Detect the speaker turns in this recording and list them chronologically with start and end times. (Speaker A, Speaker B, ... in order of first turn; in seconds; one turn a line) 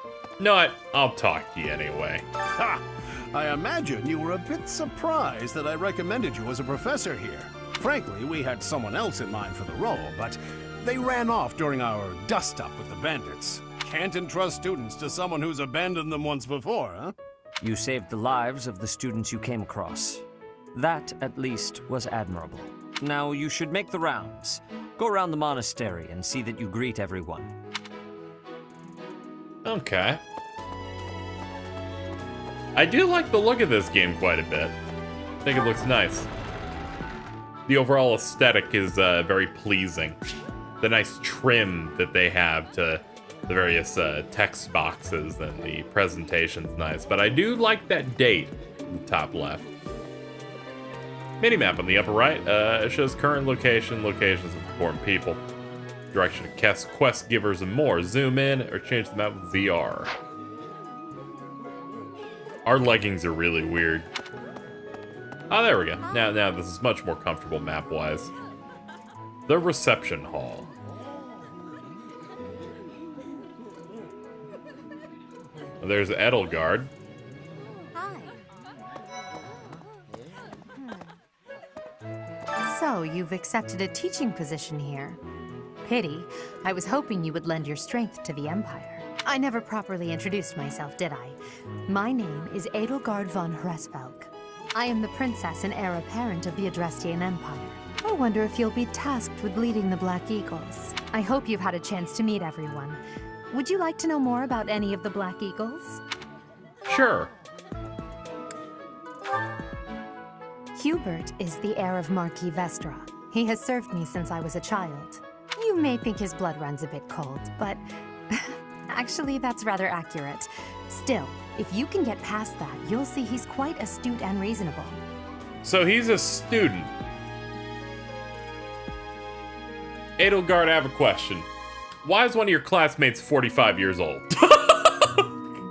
Speaker A: 0.4-2.2
Speaker B: 2.6-17.1
Speaker C: 17.6-20.2
Speaker C: 20.7-27.5
Speaker A: 29.6-30.2
Speaker A: 32.7-34.7
Speaker A: 35.4-36.3
Speaker A: 37.7-40.2
Speaker A: 40.8-49.6
Speaker A: 51.4-55.4
Speaker A: 56.1-60.1
Speaker A: 62.6-64.0
Speaker A: 65.5-68.3
Speaker A: 69.5-70.7
Speaker A: 75.8-76.9
Speaker D: 78.0-78.2
Speaker D: 82.6-85.2
Speaker D: 85.8-103.0
Speaker D: 103.5-106.0
Speaker A: 106.9-107.3
Speaker D: 110.7-125.0
Speaker A: 125.6-126.9
Speaker A: 130.2-131.5
Speaker A: 132.0-135.3